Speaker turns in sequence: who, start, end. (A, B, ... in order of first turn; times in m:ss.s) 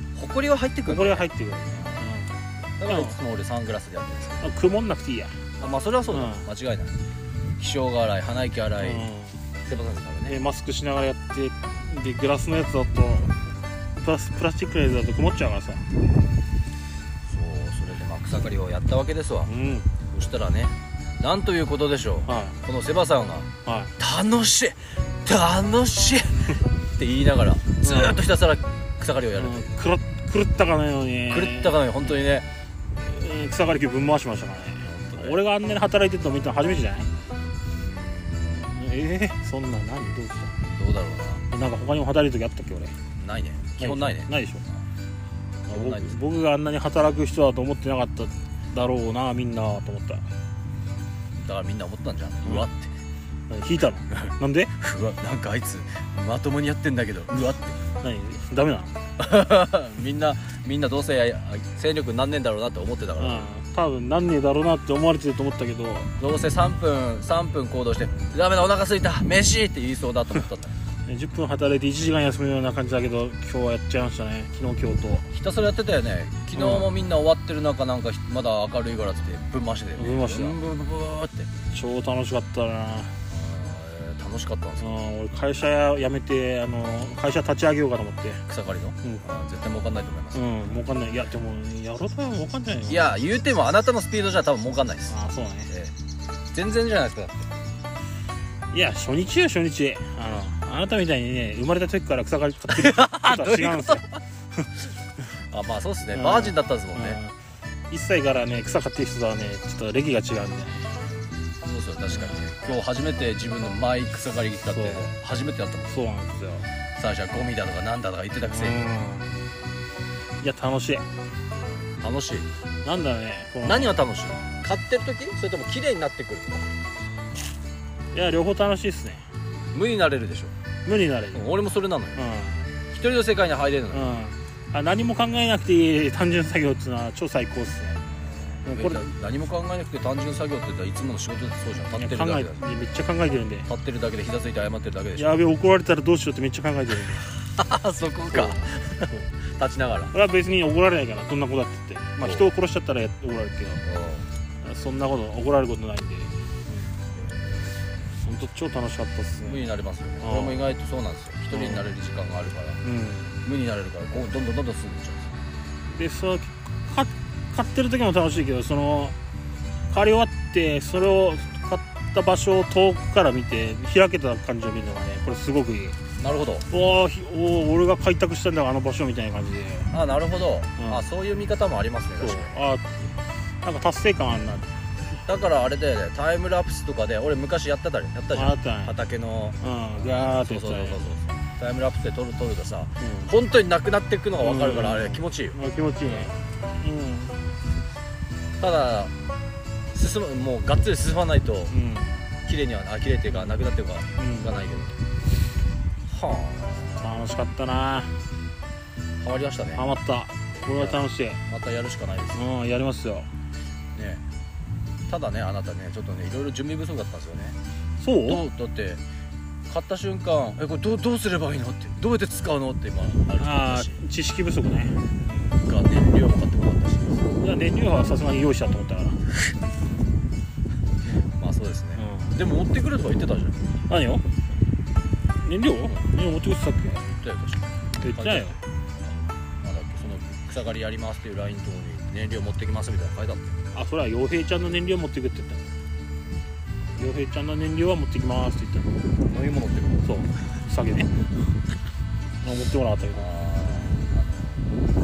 0:00.2-0:02.0 A
0:00.9-0:02.3 B
0:02.8-0:04.5 A
0:02.9-0:03.2 B
0:04.4-0:05.4 B
0:05.6-0:07.0 A
0:06.1-0:06.5 B
0:07.6-0:09.1 A
0:08.8-0:09.4 B
0:09.7-0:10.4 A
0:10.3-0:13.4 B
0:14.0-0:15.8 B
0:17.3-0:19.5 A
0:19.5-0:19.9 B
0:20.1-0:29.7 A
0:22.3-0:22.6 B
0:23.6-0:24.0 B
0:27.8-0:28.2 B
0:29.4-0:32.2 B
0:31.3-0:32.5 A
0:33.0-0:37.1 B
0:34.8-0:35.4 A
0:37.7-0:38.8 A
0:38.5-0:40.6 B
0:40.6-0:41.4 A
0:41.5-0:42.9 B
0:43.2-0:44.3 A
0:43.8-0:44.6 B
0:45.7-0:46.2 A
0:45.7-0:50.3 B
0:51.4-0:52.9 A
0:53.5-0:54.7 B
0:54.1-0:57.8 A
0:58.0-0:59.0 B
0:59.2-1:03.5 A
1:03.2-1:06.1 B
1:06.2-1:10.8 A
1:11.1-1:15.3 B
1:15.3-1:21.5 A
1:16.6-1:16.9 B
1:20.0-1:20.6 B
1:21.7-1:23.2 B
1:23.3-1:25.0 A
1:24.8-1:28.4 B
1:28.5-1:30.5 A
1:30.3-1:33.1 B
1:32.9-1:35.1 A
1:35.1-1:35.7 B
1:35.7-1:36.0 A
1:36.5-1:37.5 A
1:38.7-1:44.0 B
1:42.7-1:44.2 A
1:45.5-1:47.2 A
1:46.1-1:47.4 B
1:47.9-1:51.0 B
1:51.6-1:56.0 A
1:52.1-1:52.5 B
1:54.7-1:55.1 B
1:55.9-1:56.7 B
1:57.0-1:58.8 A
1:58.4-1:59.4 B
2:00.4-2:01.0 B
2:02.0-2:02.5 A
2:02.8-2:04.0 B
2:03.6-2:06.7 A
2:08.1-2:09.2 B
2:09.7-2:10.5 A
2:10.9-2:11.5 B
2:11.3-2:12.2 A
2:12.2-2:12.6 B
2:12.9-2:14.2 A
2:13.9-2:18.0 B
2:18.3-2:22.6 A
2:18.6-2:19.1 B
2:21.9-2:23.7 B
2:23.7-2:25.4 A
2:25.2-2:27.3 B
2:27.5-2:30.1 A
2:28.3-2:29.2 B
2:30.1-2:33.8 B
2:32.2-2:32.5 A
2:33.8-2:34.3 A
2:34.6-2:37.1 B
2:37.2-2:37.9 A
2:38.2-2:39.7 B
2:39.4-2:42.8 A
2:40.2-2:40.7 B
2:41.5-2:41.9 B
2:42.8-2:43.3 B
2:43.4-2:45.4 A
2:45.9-2:49.2 B
2:49.9-2:56.0 B
2:56.2-2:56.7 A
2:56.7-2:59.9 B
2:59.9-3:02.6 A
3:00.8-3:01.1 B
3:02.2-3:02.9 B
3:03.6-3:04.8 B
3:05.2-3:16.3 A
3:08.3-3:09.0 B
3:09.6-3:11.0 B
3:13.0-3:13.3 B
3:14.4-3:17.4 B
3:18.6-3:19.1 A
3:19.9-3:21.7 A
3:21.7-3:22.2 B
3:22.4-3:25.0 A
3:24.2-3:24.6 B
3:26.1-3:27.1 A
3:27.0-3:28.1 B
3:29.2-3:29.9 A
3:29.8-3:31.4 B
3:30.6-3:32.4 A
3:32.3-3:33.3 B
3:33.9-3:34.2 A
3:35.1-3:37.6 A
3:38.0-3:38.4 B
3:38.2-3:39.0 A
3:39.7-3:44.0 A
3:43.4-3:45.6 B
3:45.5-3:47.3 A
3:47.4-3:49.2 B
3:51.0-3:51.3 B
3:51.3-3:53.7 A
3:52.0-3:52.4 B
3:53.9-3:54.3 B
3:55.4-3:57.0 B
3:55.8-3:56.1 A
3:57.0-4:03.6 A
3:58.0-3:58.6 B
4:03.7-4:05.7 B
4:07.0-4:09.0 B
4:09.2-4:10.1 A
4:10.0-4:11.2 B
4:12.4-4:13.9 B
4:13.1-4:14.9 A